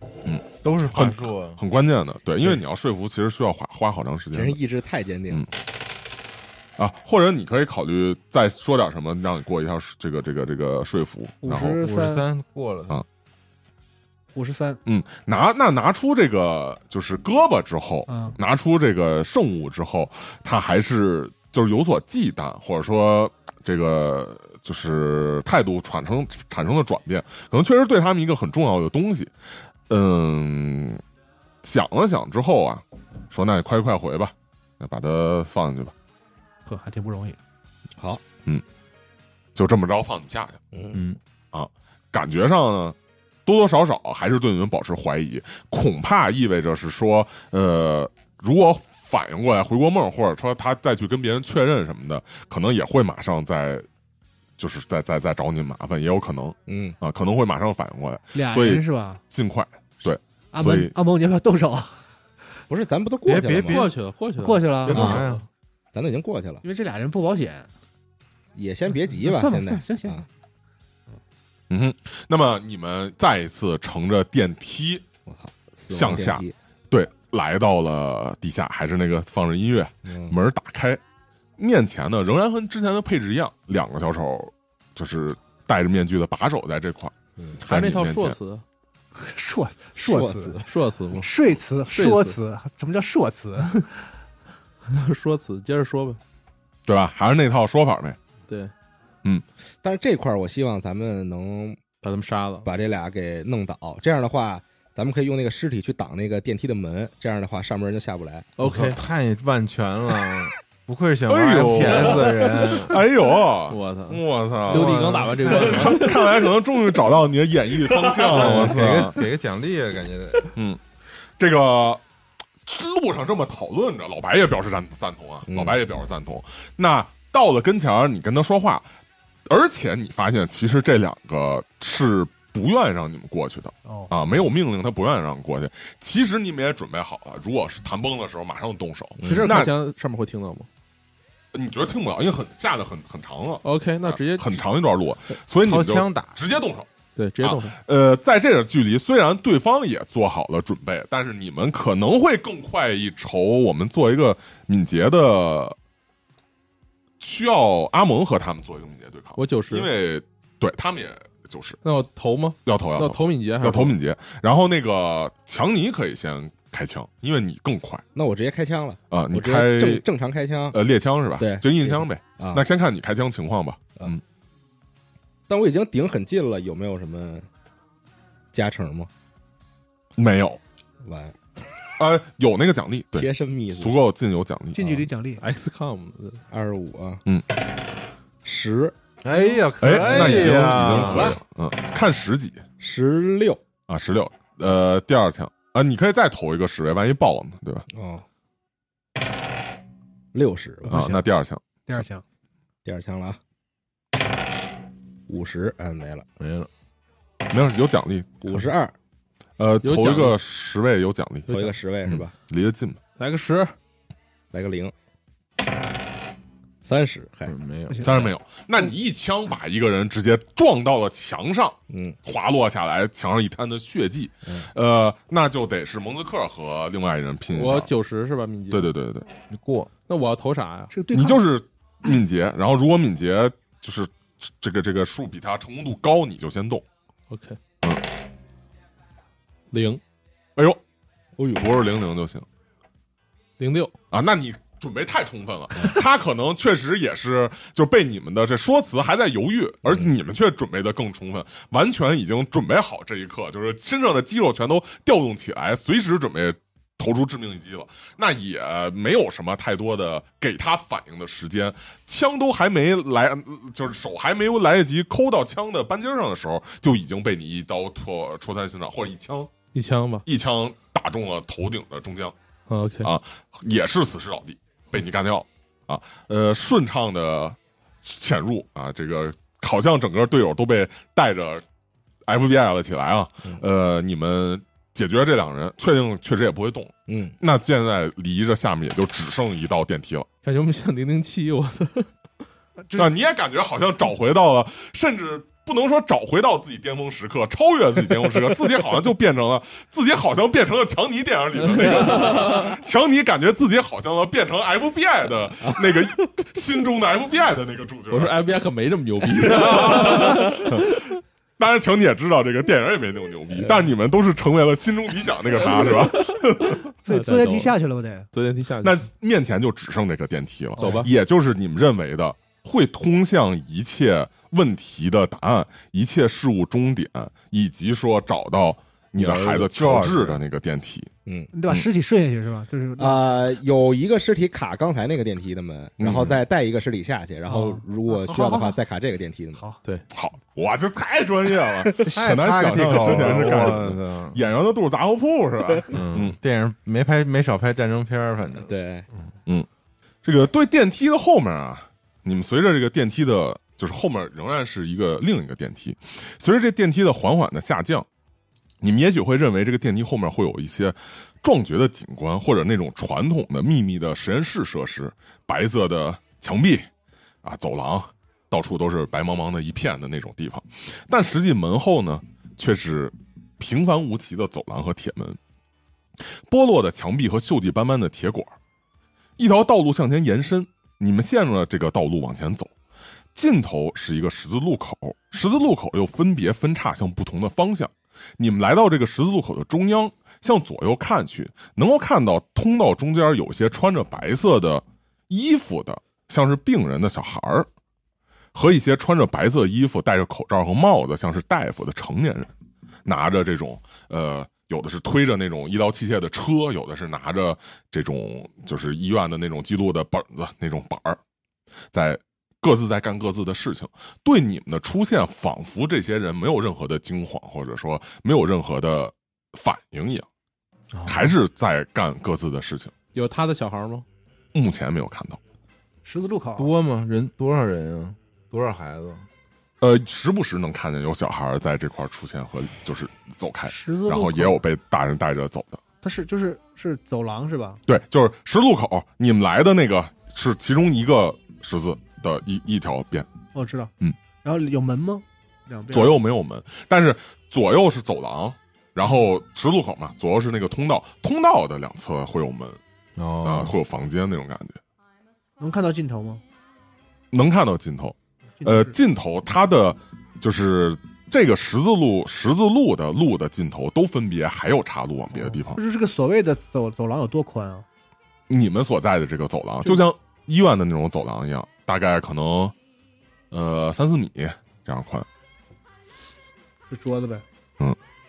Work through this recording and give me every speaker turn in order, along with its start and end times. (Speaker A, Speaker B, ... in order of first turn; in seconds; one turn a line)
Speaker A: 0.2-4.6
Speaker B: 0.6-1.6
Speaker C: 4.3-5.5
Speaker A: 6.8-11.8
Speaker D: 11.4-12.2
Speaker B: 11.7-13.0
Speaker D: 14.3-14.8
Speaker A: 14.8-29.3
Speaker D: 18.1-18.4
Speaker A: 29.9-31.0
Speaker A: 31.6-35.9
Speaker D: 36.6-37.4
Speaker C: 38.0-38.2
Speaker A: 39.5-40.6
Speaker C: 40.7-41.0
Speaker B: 40.9-41.2
Speaker A: 41.5-53.9
Speaker A: 54.6-60.9
Speaker C: 56.7-57.0
Speaker D: 58.3-59.2
Speaker D: 60.5-62.0
Speaker C: 62.7-63.9
Speaker B: 63.2-63.9
Speaker E: 63.7-65.4
Speaker D: 64.4-65.0
Speaker B: 64.8-65.4
Speaker C: 64.9-65.3
Speaker C: 65.9-66.6
Speaker D: 66.6-67.7
Speaker C: 68.5-70.2
Speaker D: 68.9-70.2
Speaker A: 71.7-75.1
Speaker C: 75.2-76.5
Speaker A: 75.9-81.0
Speaker C: 80.0-80.4
Speaker A: 81.6-87.1
Speaker E: 87.6-88.6
Speaker A: 87.6-88.4
Speaker D: 89.2-90.6
Speaker C: 90.0-90.7
Speaker E: 90.7-91.3
Speaker D: 91.2-93.8
Speaker E: 91.9-92.3
Speaker E: 94.8-96.2
Speaker A: 96.8-98.2
Speaker C: 99.8-101.8
Speaker E: 102.0-102.7
Speaker C: 102.6-108.5
Speaker E: 108.6-109.0
Speaker B: 108.6-113.0
Speaker A: 111.3-119.2
Speaker E: 113.7-116.5
Speaker B: 114.7-116.1
Speaker B: 118.3-120.5
Speaker A: 120.5-120.8
Speaker A: 121.4-122.0
Speaker A: 122.6-128.9
Speaker C: 125.5-125.8
Speaker A: 129.5-139.7
Speaker D: 133.8-134.1
Speaker C: 139.2-139.5
Speaker E: 139.2-140.7
Speaker A: 141.5-146.9
Speaker E: 143.6-144.6
Speaker B: 145.6-146.4
Speaker E: 147.2-147.8
Speaker A: 147.4-155.8
Speaker A: 157.2-161.8
Speaker E: 159.4-159.9
Speaker E: 161.8-163.9
Speaker A: 162.6-168.0
Speaker C: 168.1-170.8
Speaker A: 169.1-170.0
Speaker A: 170.7-174.2
Speaker C: 171.4-172.7
Speaker C: 175.5-177.5
Speaker C: 178.5-179.1
Speaker A: 180.2-180.6
Speaker C: 181.0-181.4
Speaker A: 182.0-184.8
Speaker C: 183.1-184.0
Speaker D: 184.7-185.4
Speaker E: 185.4-186.4
Speaker C: 186.5-187.2
Speaker C: 188.4-188.9
Speaker B: 189.2-191.4
Speaker D: 189.3-189.6
Speaker A: 189.8-192.6
Speaker C: 190.0-191.4
Speaker C: 192.8-193.6
Speaker A: 193.9-197.9
Speaker C: 197.9-198.2
Speaker C: 200.3-201.0
Speaker D: 200.9-201.3
Speaker A: 200.9-202.0
Speaker D: 201.9-202.2
Speaker C: 202.8-203.4
Speaker C: 205.3-206.2
Speaker B: 206.4-206.7
Speaker A: 207.5-208.7
Speaker C: 208.4-208.9
Speaker A: 209.6-211.5
Speaker E: 209.8-210.4
Speaker E: 211.5-211.7
Speaker C: 211.5-212.3
Speaker A: 212.0-213.0
Speaker E: 213.2-213.7
Speaker C: 214.5-214.9
Speaker C: 216.8-217.6
Speaker B: 217.5-218.3
Speaker D: 217.9-218.2
Speaker A: 218.0-227.9
Speaker C: 221.9-222.2
Speaker E: 227.5-228.9
Speaker A: 228.7-229.2
Speaker B: 229.5-229.9
Speaker E: 230.1-230.9
Speaker D: 230.9-231.4
Speaker A: 231.1-236.8
Speaker E: 237.3-237.6
Speaker E: 239.7-240.0
Speaker C: 241.4-241.7
Speaker A: 241.5-242.4
Speaker E: 243.6-243.9
Speaker A: 244.1-269.5
Speaker C: 249.8-250.1
Speaker E: 269.7-270.2
Speaker A: 270.2-272.3
Speaker E: 272.7-273.1
Speaker A: 273.0-281.6
Speaker A: 282.2-290.3
Speaker C: 287.1-287.4
Speaker E: 290.4-292.1
Speaker A: 292.9-308.4
Speaker E: 301.6-302.8
Speaker C: 305.6-306.1
Speaker E: 308.1-311.1
Speaker A: 309.5-316.9
Speaker C: 313.6-313.8
Speaker E: 315.8-316.3
Speaker D: 317.0-318.3
Speaker E: 317.0-317.7
Speaker E: 318.3-319.1
Speaker A: 318.8-331.1
Speaker D: 320.8-321.0
Speaker E: 320.8-321.1
Speaker B: 329.2-330.4
Speaker C: 331.2-331.5
Speaker D: 331.5-333.4
Speaker C: 333.0-339.6
Speaker A: 336.0-336.4
Speaker D: 337.5-338.8
Speaker A: 340.1-346.4
Speaker C: 341.8-342.1
Speaker B: 342.0-344.4
Speaker B: 345.9-348.7
Speaker C: 348.6-349.1
Speaker A: 350.2-358.1
Speaker A: 358.8-366.9
Speaker A: 367.4-375.4
Speaker A: 376.5-378.5
Speaker A: 379.4-382.7
Speaker A: 383.3-397.7
Speaker A: 398.5-402.5
Speaker A: 403.0-411.2
Speaker A: 411.9-420.3
Speaker B: 420.9-421.3
Speaker A: 421.1-422.9
Speaker E: 423.1-424.0
Speaker A: 424.5-425.4
Speaker D: 426.0-426.7
Speaker B: 426.6-429.2
Speaker A: 429.8-435.8
Speaker D: 433.7-434.6
Speaker D: 436.0-437.8
Speaker A: 437.9-443.3
Speaker D: 443.5-443.9
Speaker D: 444.4-446.2
Speaker A: 445.9-452.8
Speaker B: 453.2-453.8
Speaker A: 453.4-454.8
Speaker D: 455.6-456.4
Speaker A: 457.3-465.8
Speaker D: 458.6-459.0
Speaker D: 465.3-467.8
Speaker A: 468.5-472.7
Speaker A: 473.5-475.2
Speaker D: 476.9-477.4